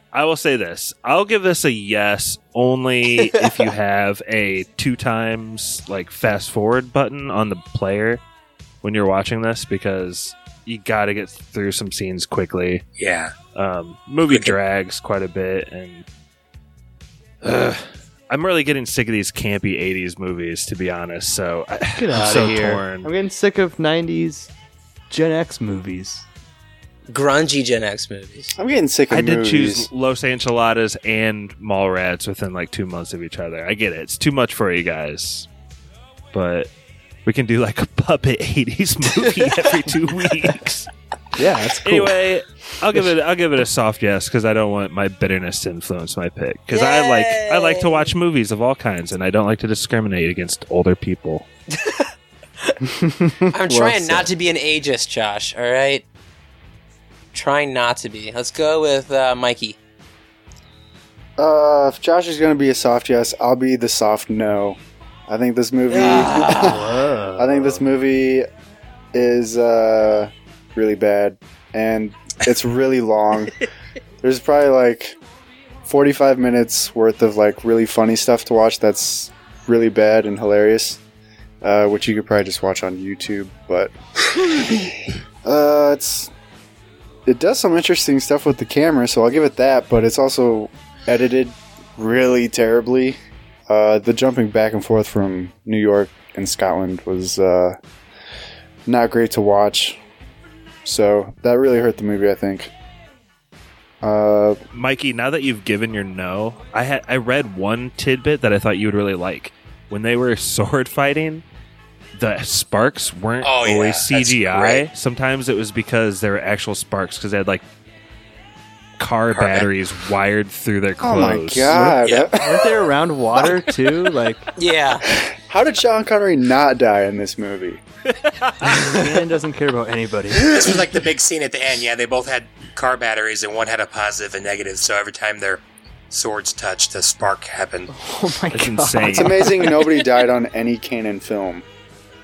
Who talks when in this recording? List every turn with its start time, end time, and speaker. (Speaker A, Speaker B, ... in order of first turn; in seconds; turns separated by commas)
Speaker A: 0.1-8.2, Speaker A: 8.8-12.9, Speaker B: 13.0-13.3, Speaker A: 13.6-16.1, Speaker B: 14.3-14.6, Speaker A: 17.4-23.1, Speaker C: 21.9-24.5, Speaker C: 25.1-26.2, Speaker D: 27.1-28.6, Speaker E: 28.6-29.9, Speaker A: 29.1-35.5, Speaker A: 36.3-36.7, Speaker A: 37.2-40.9, Speaker C: 41.4-42.3, Speaker A: 41.8-51.5, Speaker C: 42.8-43.1, Speaker D: 46.7-48.1, Speaker D: 51.7-52.1, Speaker C: 52.8-54.3, Speaker D: 53.5-56.1, Speaker D: 57.3-59.8, Speaker E: 61.4-66.9, Speaker D: 65.9-66.8, Speaker C: 66.0-67.8, Speaker E: 67.4-68.5, Speaker E: 69.1-73.7, Speaker E: 74.2-75.2, Speaker E: 75.9-81.0, Speaker E: 81.6-86.3, Speaker E: 87.3-97.8, Speaker E: 98.9-100.0, Speaker E: 100.8-102.7, Speaker E: 104.0-104.6, Speaker A: 104.7-111.4, Speaker A: 112.2-117.6, Speaker B: 113.4-114.8, Speaker A: 119.0-121.8, Speaker B: 119.3-119.7, Speaker E: 121.0-122.7, Speaker C: 121.7-124.5, Speaker B: 122.0-122.3, Speaker D: 124.6-125.0, Speaker E: 125.2-127.8, Speaker C: 128.6-130.5, Speaker B: 130.4-137.9, Speaker C: 137.9-140.0, Speaker A: 138.5-139.7, Speaker E: 139.1-141.7